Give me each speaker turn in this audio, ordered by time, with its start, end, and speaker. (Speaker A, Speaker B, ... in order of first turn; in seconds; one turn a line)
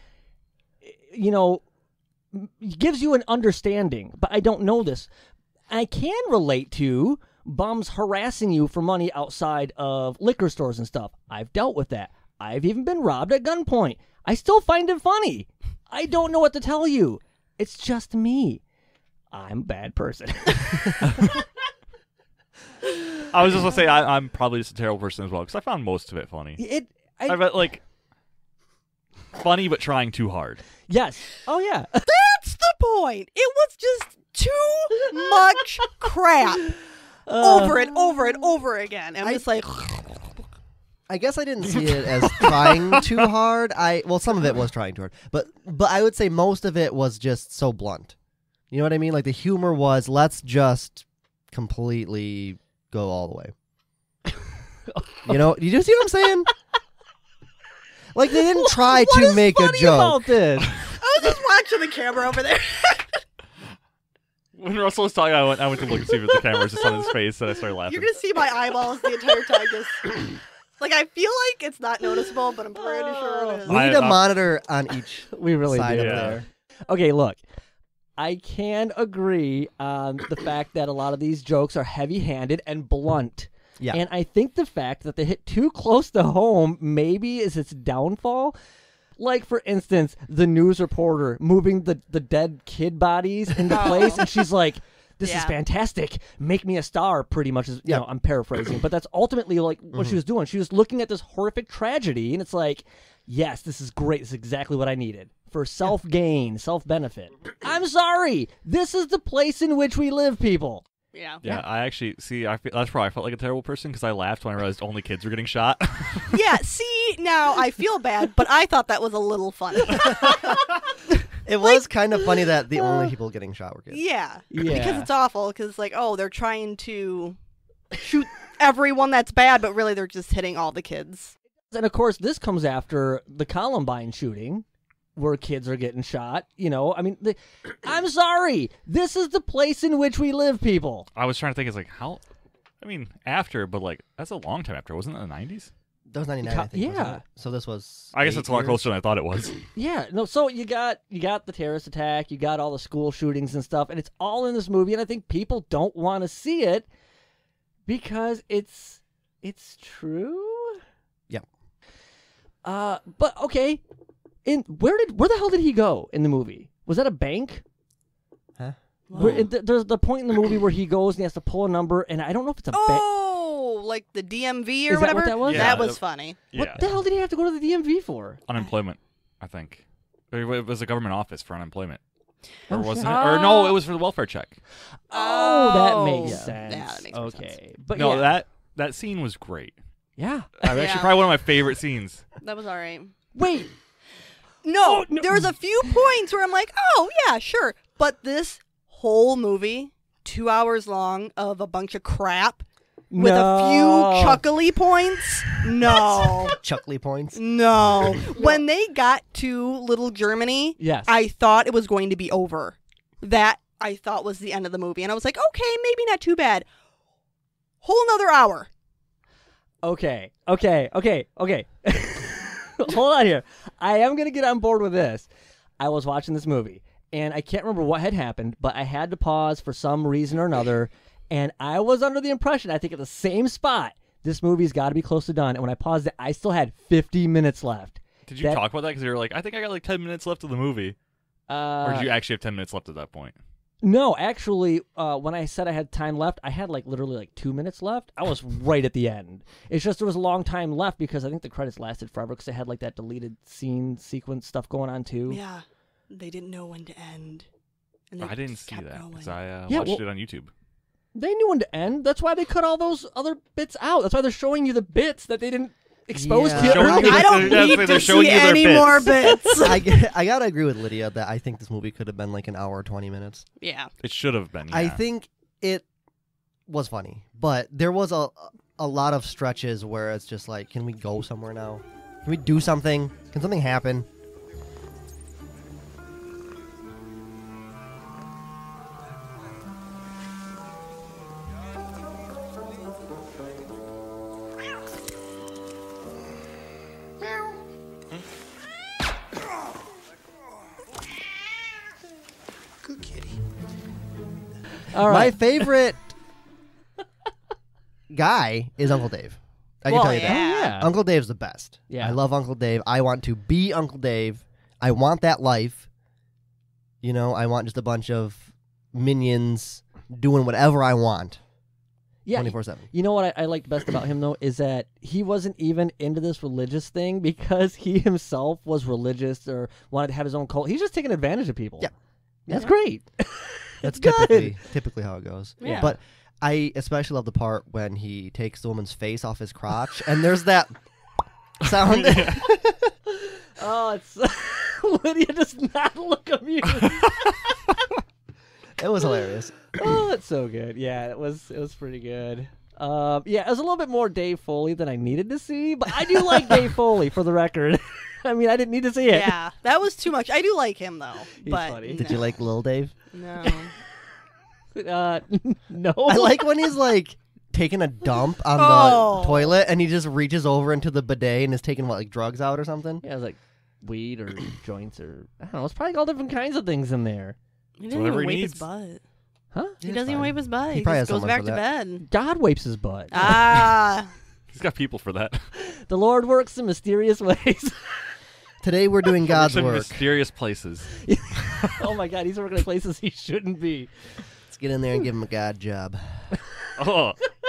Speaker A: 0.8-1.6
Speaker A: 2.3-5.1
Speaker A: 5.7-18.6
Speaker A: 19.3-21.3
Speaker B: 23.3-26.6
Speaker A: 26.6-27.5
Speaker B: 27.3-27.8
Speaker B: 29.3-30.6
Speaker A: 30.9-32.0
Speaker C: 32.0-36.8
Speaker A: 37.3-38.0
Speaker C: 37.4-40.3
Speaker D: 41.1-48.1
Speaker A: 41.7-42.9
Speaker D: 48.7-53.5
Speaker A: 54.9-55.4
Speaker D: 55.2-56.5
Speaker D: 58.1-60.3
Speaker A: 59.0-60.8
Speaker C: 61.0-63.2
Speaker B: 64.5-68.2
Speaker C: 67.9-73.8
Speaker A: 72.7-73.7
Speaker D: 73.7-76.4
Speaker B: 73.7-74.2
Speaker A: 75.3-77.4
Speaker B: 75.9-76.3
Speaker A: 78.2-88.5
Speaker A: 89.2-110.8
Speaker C: 93.7-94.2
Speaker C: 95.2-95.6
Speaker D: 99.9-100.2
Speaker C: 111.1-111.4
Speaker B: 111.4-116.3
Speaker C: 116.3-120.6
Speaker D: 121.5-124.0
Speaker C: 123.9-127.4
Speaker A: 124.5-125.1
Speaker C: 127.9-131.3
Speaker A: 131.7-134.6
Speaker A: 135.2-141.1
Speaker B: 141.2-142.2
Speaker B: 142.8-145.7
Speaker D: 146.1-148.8
Speaker A: 146.4-147.2
Speaker B: 148.1-149.6
Speaker A: 149.7-156.8
Speaker A: 157.9-160.8
Speaker A: 162.6-163.8
Speaker A: 164.4-167.6
Speaker D: 168.6-169.4
Speaker C: 169.1-169.5
Speaker A: 169.1-173.0
Speaker C: 172.7-176.4
Speaker A: 174.9-175.9
Speaker B: 175.4-176.8
Speaker A: 176.5-178.4
Speaker B: 178.5-182.0
Speaker A: 182.7-183.7
Speaker B: 182.7-184.6
Speaker A: 185.1-188.4
Speaker C: 185.1-187.5
Speaker D: 186.2-186.5
Speaker B: 187.9-189.8
Speaker A: 190.2-191.0
Speaker B: 190.6-192.2
Speaker C: 190.7-191.3
Speaker C: 192.4-193.1
Speaker A: 193.3-193.7
Speaker C: 194.6-206.6
Speaker A: 194.8-195.5
Speaker A: 203.1-204.4
Speaker D: 206.6-208.2
Speaker C: 207.3-216.7
Speaker A: 208.3-208.6
Speaker A: 210.8-211.1
Speaker C: 217.8-218.7
Speaker A: 219.8-225.3
Speaker A: 225.8-238.6
Speaker B: 238.3-240.9
Speaker A: 241.5-242.1
Speaker B: 241.8-243.4
Speaker A: 243.8-255.4
Speaker C: 255.3-257.4
Speaker C: 258.1-259.3
Speaker B: 258.2-260.5
Speaker A: 259.7-260.0
Speaker A: 261.1-267.7
Speaker D: 266.1-267.4
Speaker B: 266.5-269.2
Speaker C: 266.8-269.8
Speaker A: 269.2-269.6
Speaker D: 269.6-273.4
Speaker C: 273.6-273.9
Speaker B: 274.0-275.0
Speaker D: 274.7-275.8
Speaker D: 276.7-284.1
Speaker A: 304.9-305.4
Speaker D: 304.9-306.1
Speaker D: 308.1-315.9
Speaker C: 309.9-310.8
Speaker A: 310.2-310.9
Speaker A: 311.9-312.2
Speaker D: 317.0-321.4
Speaker A: 322.2-331.9
Speaker D: 322.3-322.9
Speaker A: 332.5-334.6
Speaker D: 333.8-340.7
Speaker C: 335.6-335.9
Speaker A: 335.6-335.9
Speaker D: 341.6-342.9
Speaker B: 341.7-342.4
Speaker A: 343.1-347.3
Speaker B: 346.8-347.1
Speaker D: 348.8-349.5
Speaker A: 349.7-359.4
Speaker C: 359.1-362.1
Speaker A: 361.4-362.1
Speaker D: 361.9-362.9
Speaker C: 363.1-363.7
Speaker A: 364.7-366.5
Speaker D: 366.1-373.0
Speaker C: 368.5-369.5
Speaker A: 373.0-377.4
Speaker C: 377.8-379.0
Speaker B: 377.9-378.6
Speaker A: 379.5-379.8
Speaker D: 379.8-381.6
Speaker C: 379.8-382.0
Speaker A: 382.0-383.6
Speaker C: 383.1-384.1
Speaker B: 384.5-385.4
Speaker A: 385.5-387.8
Speaker D: 388.6-390.0
Speaker B: 389.3-390.9
Speaker A: 391.0-393.9
Speaker B: 391.5-391.8
Speaker D: 394.5-396.0
Speaker B: 396.8-397.2